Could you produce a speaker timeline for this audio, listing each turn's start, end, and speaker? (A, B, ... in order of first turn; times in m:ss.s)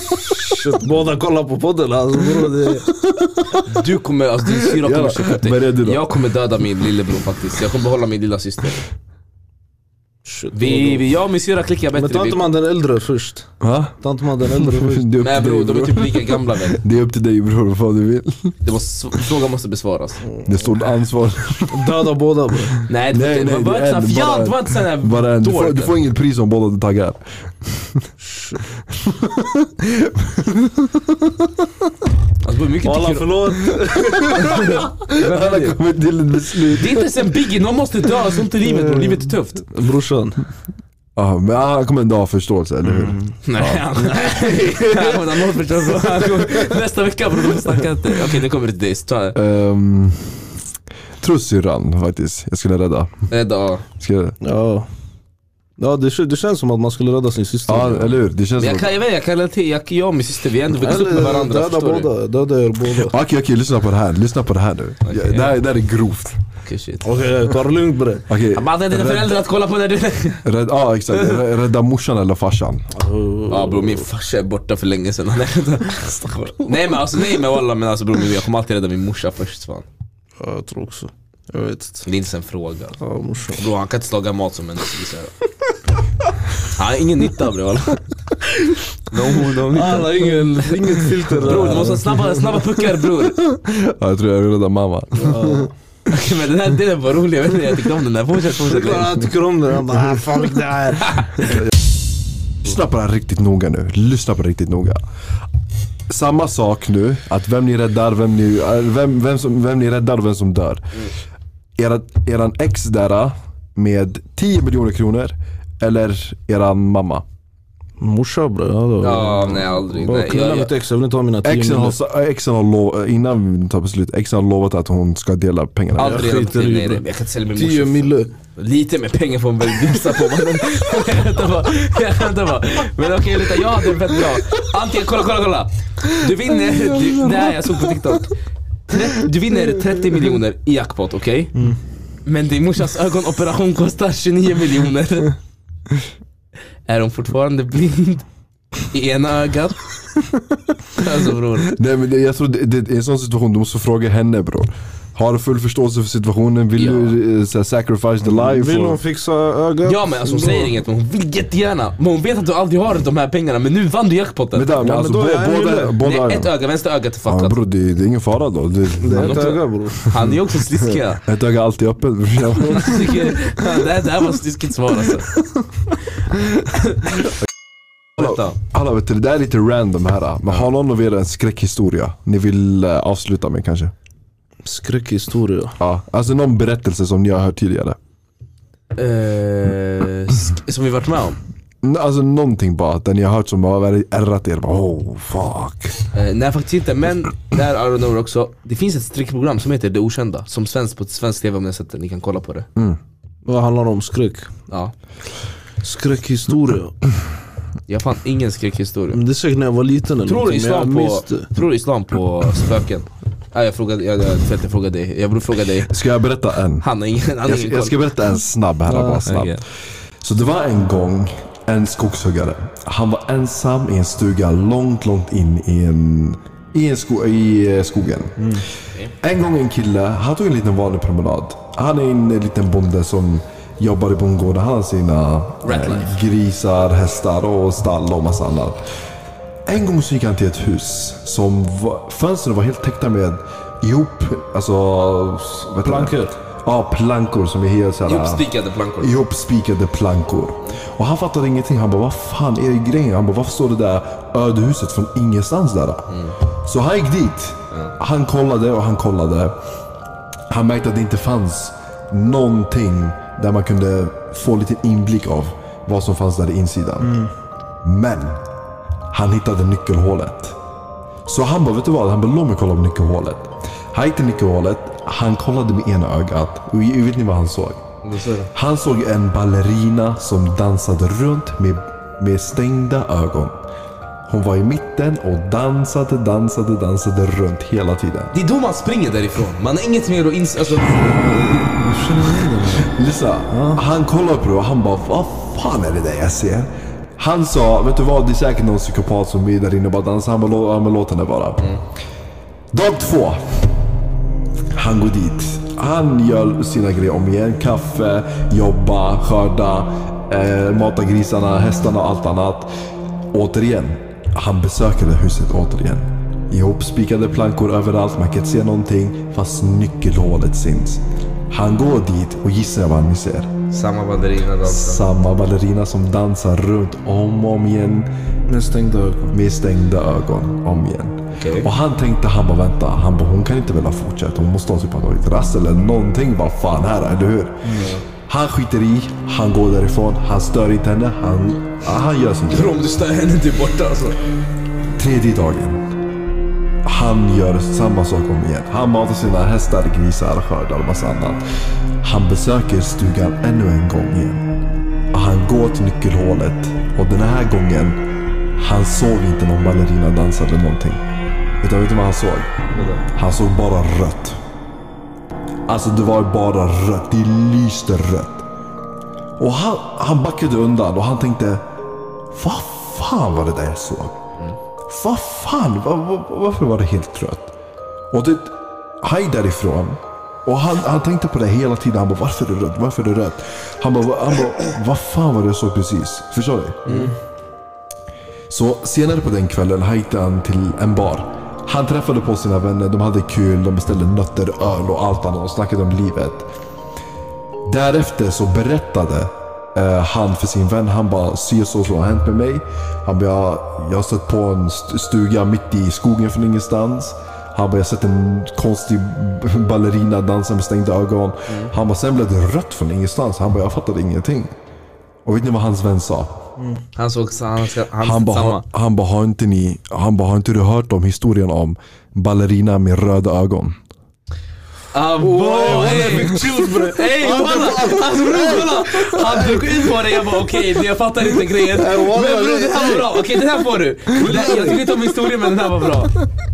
0:00.2-0:00.4 A
0:00.3-0:02.9 B
0:02.9-0:03.7 A
0:03.6-0:08.8 C
0:04.5-0:06.0 A
0:10.2-0:11.1 B
0:10.5-0:12.5 C
0:11.9-0:15.1 B
0:13.6-0:14.0 A
0:14.5-0:18.6 A
0:15.2-0:16.8 C
0:18.6-0:20.2 C
0:20.4-0:21.9 A
0:21.7-0:22.7 B
0:22.9-0:25.9 C
0:23.1-0:28.1 A
0:28.2-0:28.6 B
0:28.9-0:31.7 A
0:32.4-0:33.4 C
0:32.8-0:34.8 B
0:33.9-0:37.1 A
0:34.4-0:35.8 C
0:36.7-0:39.6 C
0:38.6-0:39.2 B
0:39.7-0:40.4 B
0:41.2-0:43.9 A
0:43.0-0:43.2 B
0:43.4-0:49.4 C
0:49.3-0:50.5 A
0:51.2-0:53.1 A
0:53.3-0:53.8 C
0:54.0-0:54.4 A
0:54.4-0:54.9 B
0:55.8-0:58.2 B
0:57.7-0:58.9 A
0:58.6-1:02.1 C
1:00.7-1:03.2 B
1:03.0-1:06.4 A
1:05.0-1:05.6 C
1:06.6-1:07.1 C
1:07.0-1:08.2 B
1:08.3-1:09.3 A
1:08.5-1:10.4 C
1:10.4-1:12.9 A
1:12.9-1:14.1 B
1:13.5-1:19.9 C
1:20.4-1:22.0 B
1:22.0-1:23.0 C
1:23.0-1:23.6 B
1:23.5-1:25.3 C
1:26.6-1:28.5 C
1:29.1-1:33.4 C
1:29.7-1:32.3 B
1:33.3-1:35.7 A
1:35.2-1:35.7 B
1:36.1-1:39.2 C
1:38.6-1:41.3 B
1:41.0-1:41.6 C
1:42.6-1:45.0 A
1:46.1-1:50.9 A
1:51.8-1:57.2 A
1:58.0-2:02.0 B
1:59.0-2:00.7 C
2:01.4-2:06.3 A
2:06.0-2:18.3 C
2:06.0-2:07.0 B
2:07.6-2:08.3 B
2:18.9-2:21.6 C
2:22.2-2:25.4 C
2:26.9-2:28.2 C
2:28.8-2:29.9 C
2:30.9-2:31.7 C
2:31.6-2:39.0 A
2:36.8-2:37.1 C
2:38.2-2:40.8 B
2:39.8-2:44.7 C
2:44.5-2:46.5 A
2:44.8-2:46.0 B
2:46.0-2:47.6 C
2:47.3-2:50.4 A
2:49.0-2:50.1 B
2:49.1-2:51.2 C
2:51.2-2:53.4 A
2:52.7-2:55.3 C
2:56.6-2:57.2 C
2:58.2-2:58.6 C
2:58.2-3:03.9 A
3:04.6-3:05.7 B
3:05.8-3:08.0 A
3:09.0-3:11.4 C
3:11.8-3:16.0 A
3:16.1-3:22.7 C
3:23.4-3:24.5 B
3:25.8-3:26.9 B
3:27.9-3:29.2 C
3:29.1-3:31.5 B
3:30.2-3:35.9 C
3:35.9-3:36.9 A
3:36.8-3:38.0 C
3:37.4-3:39.6 A
3:38.9-3:39.3 B
3:39.2-3:39.6 C
3:40.2-3:48.6 A
3:48.4-3:48.6 B
3:49.2-3:58.8 A
3:55.6-3:56.2 C
3:59.7-4:08.4 A
4:05.8-4:06.3 B
4:08.0-4:09.1 C
4:09.0-4:16.1 A
4:16.6-4:19.6 A
4:20.5-4:27.2 A
4:27.0-4:27.3 B
4:27.8-4:28.4 A
4:29.1-4:30.6 A
4:31.2-4:37.8 A
4:38.0-4:38.5 C
4:38.5-4:43.6 A
4:44.3-4:48.3 A
4:48.3-4:51.5 C
4:51.1-4:52.9 B
4:52.9-5:01.7 A
4:53.5-4:53.8 B
5:02.7-5:03.7 A
5:04.7-5:12.7 A
5:13.3-5:23.5 A
5:23.7-5:25.0 C
5:24.6-5:28.1 A
5:28.5-5:29.3 B
5:29.3-5:42.8 A
5:31.4-5:31.7 C
5:37.6-5:38.0 B
5:42.5-5:44.2 C
5:45.0-5:45.9 A
5:46.8-5:51.4 A
5:52.0-5:54.4 A
5:55.1-5:58.0 A
5:58.6-6:01.0 A
6:01.6-6:04.4 A
6:02.7-6:03.0 C
6:05.7-6:08.4 A
6:09.4-6:11.7 A
6:12.3-6:14.2 A
6:14.9-6:17.5 A
6:18.1-6:27.1 A
6:26.9-6:27.1 C
6:28.5-6:36.4 A
6:37.7-6:54.5 A
6:55.2-6:56.3 A
6:57.0-6:58.6 C
6:58.0-7:03.8 A
7:04.9-7:16.1 C
7:05.2-7:10.4 B
7:11.7-7:13.4 B
7:14.1-7:14.9 B